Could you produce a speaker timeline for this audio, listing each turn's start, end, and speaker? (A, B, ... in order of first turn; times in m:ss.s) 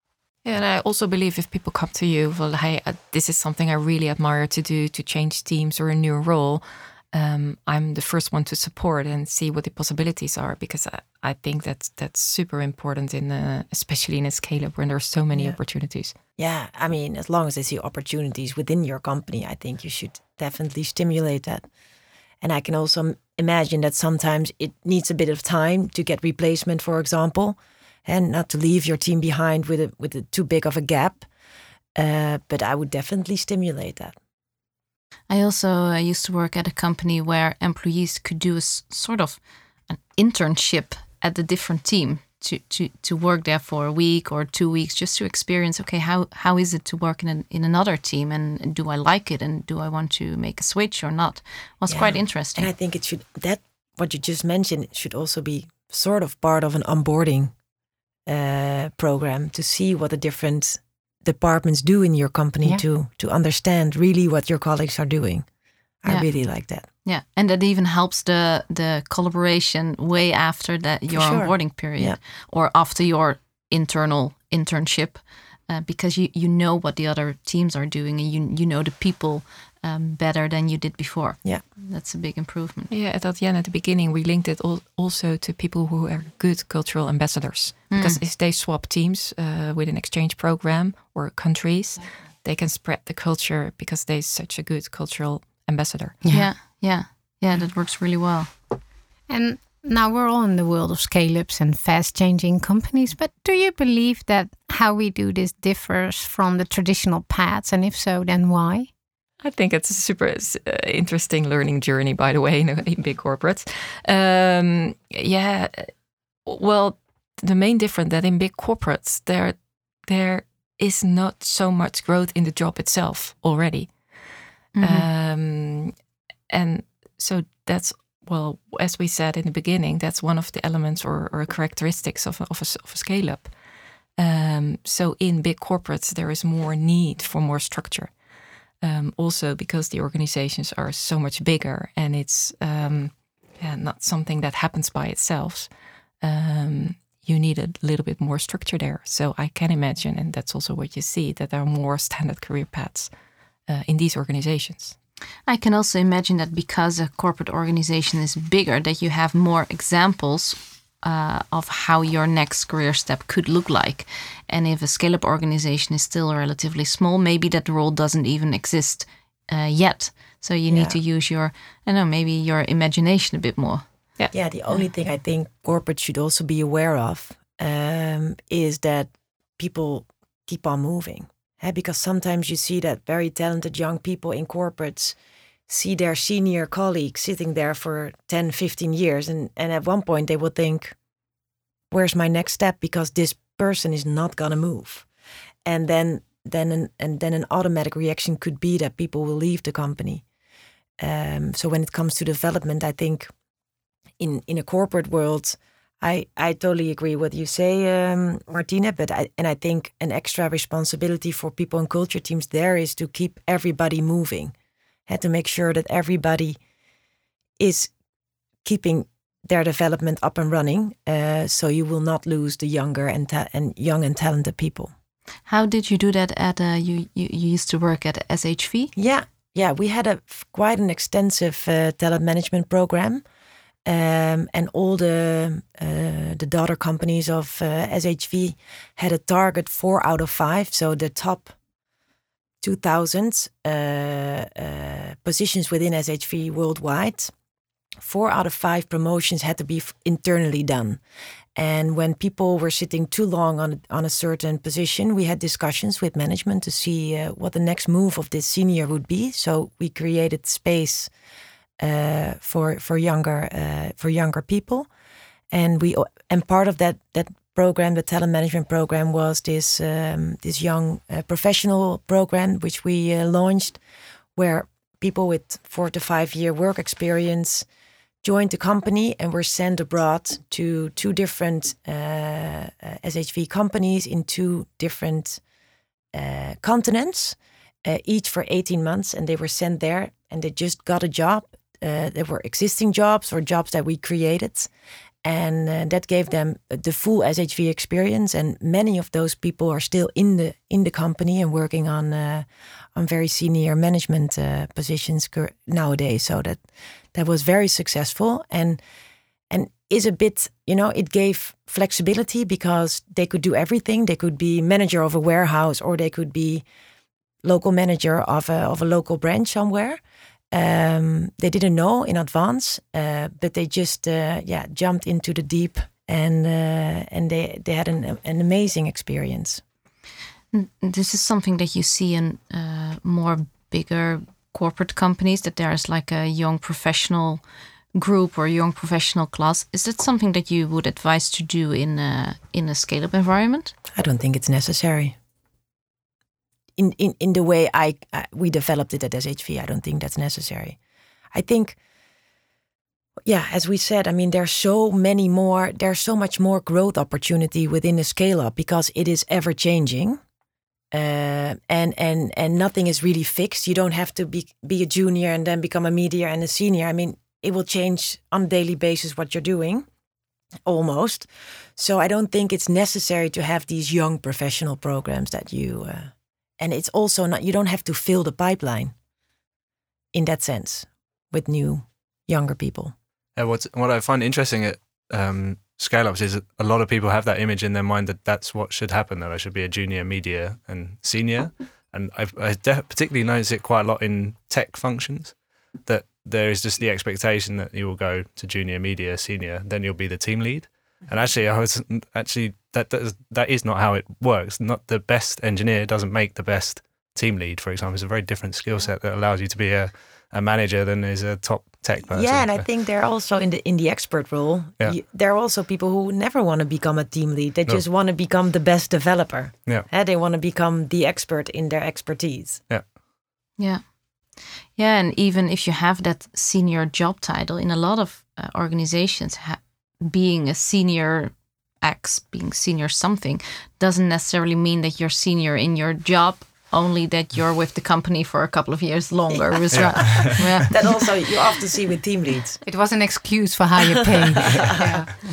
0:00.4-0:16.2 A
0:16.4-0:21.6 B
0:22.4-0:31.3 B
0:31.9-0:34.1 B
0:35.3-0:52.7 C
0:51.9-0:57.5 B
0:58.2-1:05.4 B
1:06.0-1:06.8 B
1:07.0-1:22.9 C
1:11.1-1:12.2 B
1:22.9-1:36.5 A
1:27.9-1:28.2 C
1:36.3-1:38.5 C
1:39.3-1:48.9 D
1:49.4-1:55.9 A
1:56.4-2:03.9 A
2:04.7-2:05.1 C
2:04.8-2:05.9 A
2:06.5-2:13.5 A
2:14.2-2:18.1 A
2:18.8-2:25.7 A
2:26.2-2:33.1 A
2:33.7-2:35.0 A
2:35.5-2:53.8 C
2:50.7-2:51.0 B
2:54.3-3:05.1 B
3:05.7-3:11.0 B
3:11.9-3:15.0 B
3:15.6-3:20.2 B
3:21.0-3:23.3 B
3:24.2-3:34.5 B
3:35.1-3:36.6 B
3:37.6-3:37.9 B
3:38.6-3:44.9 B
3:45.5-3:48.9 C
3:49.0-3:53.2 B
3:53.8-4:01.5 B
4:02.6-4:07.3 B
4:08.0-4:11.0 B
4:11.6-4:21.1 B
4:21.8-4:24.9 B
4:25.5-4:33.8 B
4:34.4-4:37.7 B
4:38.2-4:45.4 B
4:46.1-4:54.7 B
4:55.2-5:06.6 B
5:07.1-5:08.8 B
5:09.5-5:16.6 B
5:17.4-5:29.6 B
5:30.5-5:37.4 C
5:38.0-5:43.7 C
5:43.9-5:45.1 B
5:46.8-5:50.8 B
5:51.3-5:51.8 B
5:53.2-6:00.2 B
6:00.9-6:09.9 B
6:10.6-6:18.9 B
6:20.1-6:22.9 B
6:23.4-6:52.6 E
6:52.1-7:02.6 B
7:04.8-7:21.2 C
7:19.3-7:22.6 B
7:19.7-7:20.6 E
7:22.6-7:25.1 D